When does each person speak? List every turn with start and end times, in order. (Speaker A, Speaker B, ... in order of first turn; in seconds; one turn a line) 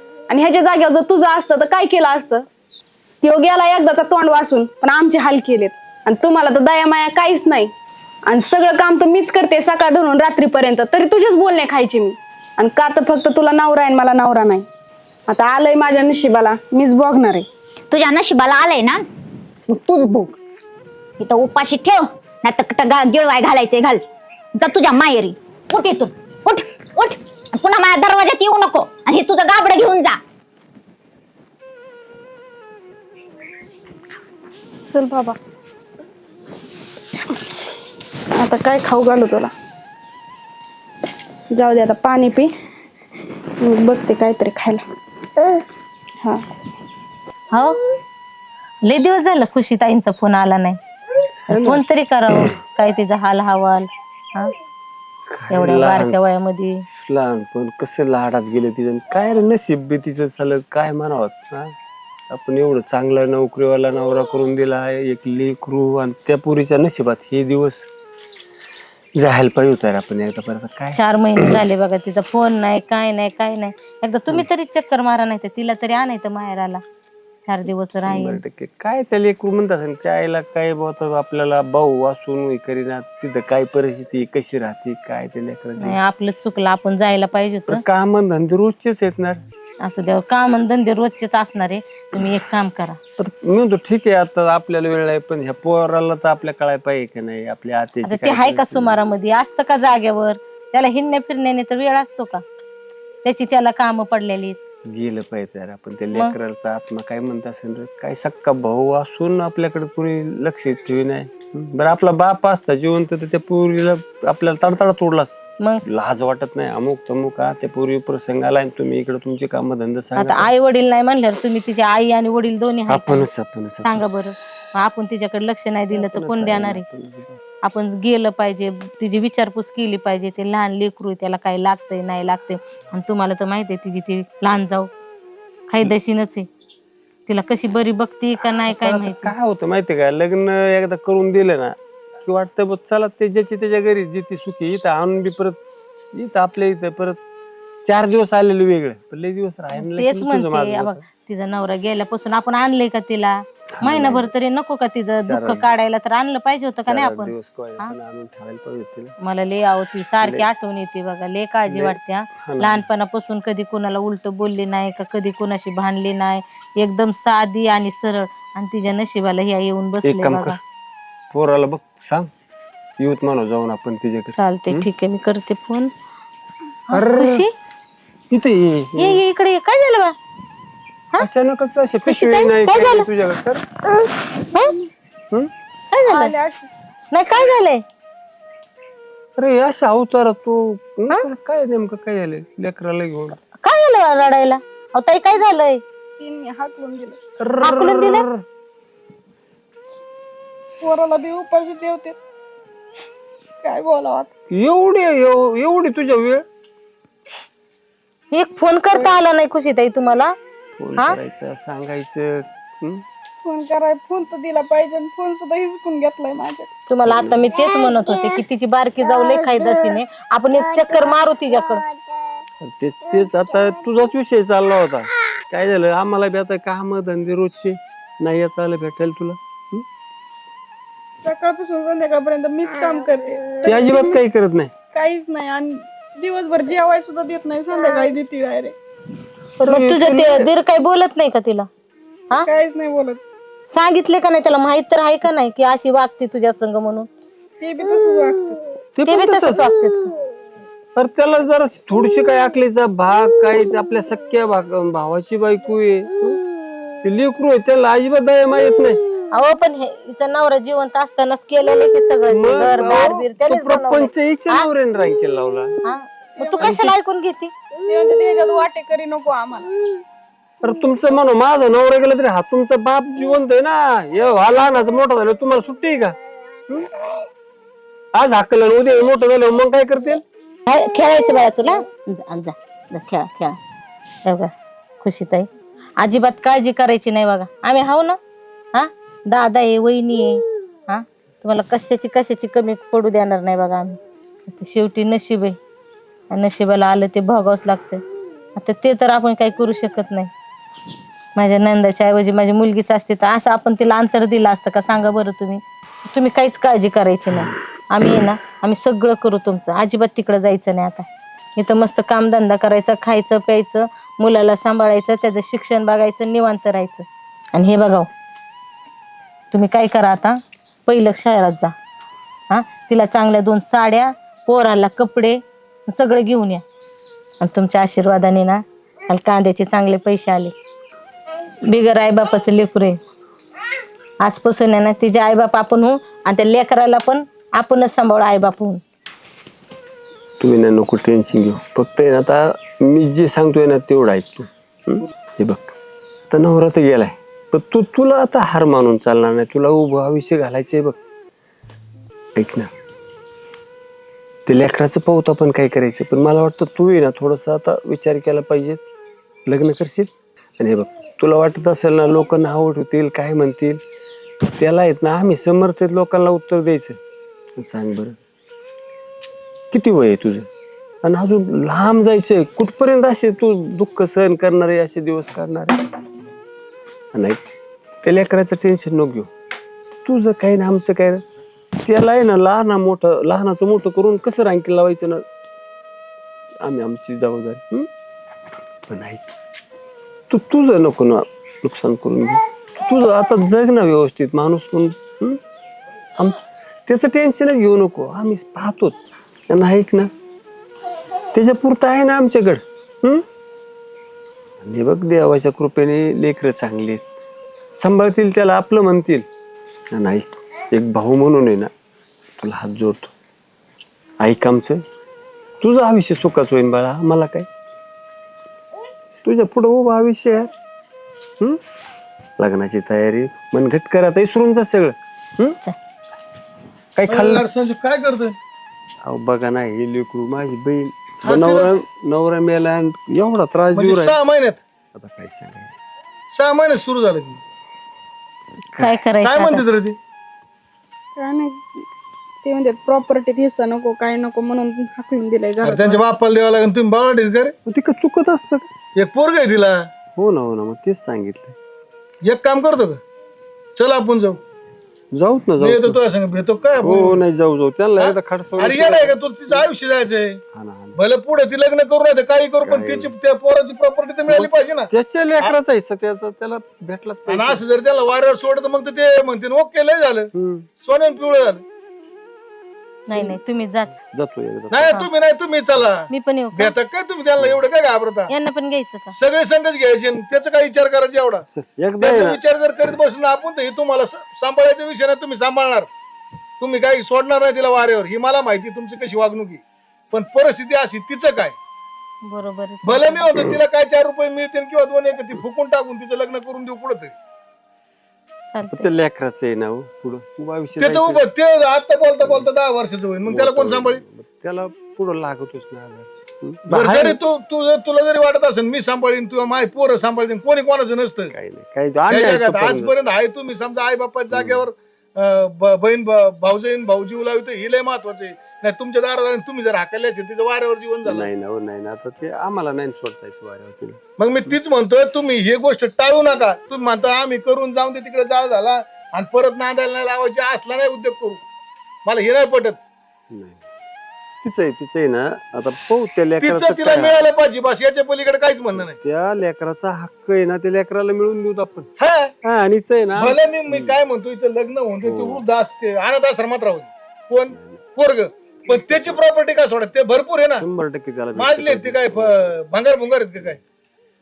Speaker A: 0.3-2.5
Speaker A: 3.2-7.7
Speaker A: 8.3-14.7
Speaker A: 15.3-17.5
Speaker B: 17.9-19.0
Speaker B: 19.7-20.4
Speaker B: 21.2-24.0
Speaker B: 24.6-30.2
Speaker A: 34.9-35.4
Speaker A: 38.4-39.5
Speaker A: 41.5-42.5
Speaker A: 43.6-44.9
Speaker C: 48.9-50.8
Speaker D: 51.5-51.8
Speaker C: 51.5-54.5
Speaker D: 55.3-56.2
Speaker C: 55.5-56.9
Speaker D: 57.0-61.7
Speaker D: 62.3-67.9
Speaker D: 69.2-71.6
Speaker C: 71.0-76.8
Speaker C: 77.5-78.4
Speaker D: 78.1-86.0
Speaker C: 85.8-87.8
Speaker D: 87.7-89.4
Speaker C: 89.8-93.0
Speaker D: 93.2-99.0
Speaker C: 98.0-102.4
Speaker C: 103.2-104.6
Speaker D: 104.9-115.3
Speaker D: 115.9-120.5
Speaker C: 120.2-123.3
Speaker D: 122.9-124.2
Speaker C: 123.8-126.8
Speaker D: 125.9-127.4
Speaker C: 127.6-134.9
Speaker C: 135.7-136.5
Speaker C: 137.3-139.3
Speaker D: 138.7-145.6
Speaker D: 146.2-147.2
Speaker D: 147.8-151.1
Speaker C: 149.8-157.9
Speaker D: 153.8-154.3
Speaker D: 155.2-155.7
Speaker D: 156.9-159.1
Speaker C: 159.2-170.6
Speaker D: 160.2-160.5
Speaker D: 161.7-162.8
Speaker D: 170.0-170.6
Speaker D: 171.3-172.3
Speaker D: 173.0-174.9
Speaker C: 174.3-175.9
Speaker C: 176.9-177.5
Speaker D: 176.9-177.4
Speaker D: 178.3-179.2
Speaker C: 179.0-180.2
Speaker D: 181.2-183.6
Speaker C: 182.1-183.1
Speaker C: 185.9-186.3
Speaker A: 186.1-186.7
Speaker C: 187.1-187.8
Speaker D: 189.4-193.4
Speaker C: 193.6-195.8
Speaker A: 196.2-197.2
Speaker D: 197.4-198.4
Speaker C: 197.6-198.3
Speaker A: 200.8-202.2
Speaker A: 203.6-204.3
Speaker D: 204.5-206.5
Speaker C: 208.3-210.3
Speaker D: 210.8-213.0
Speaker A: 213.4-216.7
Speaker C: 216.9-221.9
Speaker D: 217.1-217.5
Speaker D: 222.6-229.8
Speaker A: 231.2-234.2
Speaker D: 233.7-234.8
Speaker A: 234.9-238.8
Speaker D: 239.6-240.5
Speaker C: 239.7-241.7
Speaker A: 242.3-243.2
Speaker C: 243.7-247.1
Speaker A: 247.6-248.6
Speaker D: 249.0-249.7
Speaker C: 249.1-250.1
Speaker D: 251.0-256.4
Speaker D: 257.0-259.0
Speaker C: 259.4-264.7
Speaker D: 262.3-265.8
Speaker C: 265.8-267.5
Speaker A: 266.4-266.9
Speaker A: 267.9-269.7
Speaker D: 270.6-276.2
Speaker D: 278.1-280.2
Speaker C: 280.7-283.6
Speaker C: 284.3-285.5
Speaker C: 286.0-288.2
Speaker C: 288.7-294.0
Speaker C: 294.5-295.6
Speaker C: 296.3-298.0
Speaker C: 298.6-300.3
Speaker C: 301.4-318.1
Speaker C: 319.5-321.7
Speaker C: 322.5-326.6
Speaker C: 327.4-330.5
Speaker C: 331.7-333.0
Speaker C: 334.2-338.8
Speaker D: 340.4-345.7
Speaker D: 346.3-351.0
Speaker D: 352.4-352.7
Speaker D: 354.5-358.8
Speaker D: 359.5-363.8
Speaker D: 364.5-367.0
Speaker D: 367.6-368.2
Speaker D: 369.7-370.5
Speaker D: 371.0-375.8
Speaker D: 377.1-377.4
Speaker D: 378.0-379.3
Speaker D: 380.1-381.2
Speaker D: 381.9-385.3
Speaker D: 386.6-387.9
Speaker D: 388.9-389.2
Speaker D: 390.3-395.4
Speaker D: 396.2-399.0
Speaker D: 399.5-400.1
Speaker D: 401.3-403.2
Speaker D: 404.6-407.1
Speaker D: 407.8-409.3
Speaker D: 409.9-411.7
Speaker D: 412.4-413.1
Speaker D: 414.2-414.8
Speaker D: 415.6-417.5
Speaker D: 419.2-420.5
Speaker D: 422.4-425.6
Speaker D: 427.0-427.5
Speaker E: 427.1-428.4
Speaker D: 429.1-434.2
Speaker E: 431.2-431.7
Speaker E: 433.7-434.6
Speaker D: 434.9-435.8
Speaker E: 436.3-437.4
Speaker C: 438.8-439.6
Speaker E: 439.2-440.0
Speaker A: 441.2-441.8
Speaker A: 442.4-446.0
Speaker E: 445.6-447.6
Speaker D: 447.7-448.7
Speaker E: 449.0-449.9
Speaker D: 450.2-451.6
Speaker E: 452.2-453.0
Speaker E: 453.8-454.4
Speaker D: 455.1-456.0
Speaker E: 455.6-457.2
Speaker D: 456.8-459.6
Speaker E: 458.0-460.4
Speaker D: 460.5-461.0
Speaker E: 461.0-464.9
Speaker D: 462.6-463.1
Speaker D: 464.3-467.6
Speaker E: 467.3-471.6
Speaker D: 470.3-470.7
Speaker C: 473.1-474.0
Speaker D: 474.1-475.0
Speaker E: 474.7-478.3
Speaker C: 476.1-476.8
Speaker C: 478.3-479.1
Speaker E: 479.1-481.4
Speaker D: 481.5-482.4
Speaker E: 482.0-485.9
Speaker E: 486.6-491.6
Speaker C: 492.3-493.6
Speaker E: 492.8-497.1
Speaker C: 498.5-498.9
Speaker D: 498.7-501.2
Speaker E: 500.8-504.0
Speaker D: 503.2-507.2
Speaker E: 506.7-511.4
Speaker D: 511.3-512.9
Speaker E: 512.1-521.3
Speaker D: 514.3-514.6
Speaker D: 521.1-524.0
Speaker E: 524.2-531.4
Speaker E: 532.1-532.8
Speaker D: 533.3-533.6
Speaker D: 534.4-537.2
Speaker E: 536.4-539.0
Speaker D: 538.8-541.9
Speaker E: 542.0-542.3
Speaker D: 542.4-544.0
Speaker E: 543.1-550.7
Speaker D: 545.0-545.4
Speaker D: 547.5-547.8
Speaker D: 548.7-549.2
Speaker D: 550.6-552.5
Speaker E: 551.3-553.6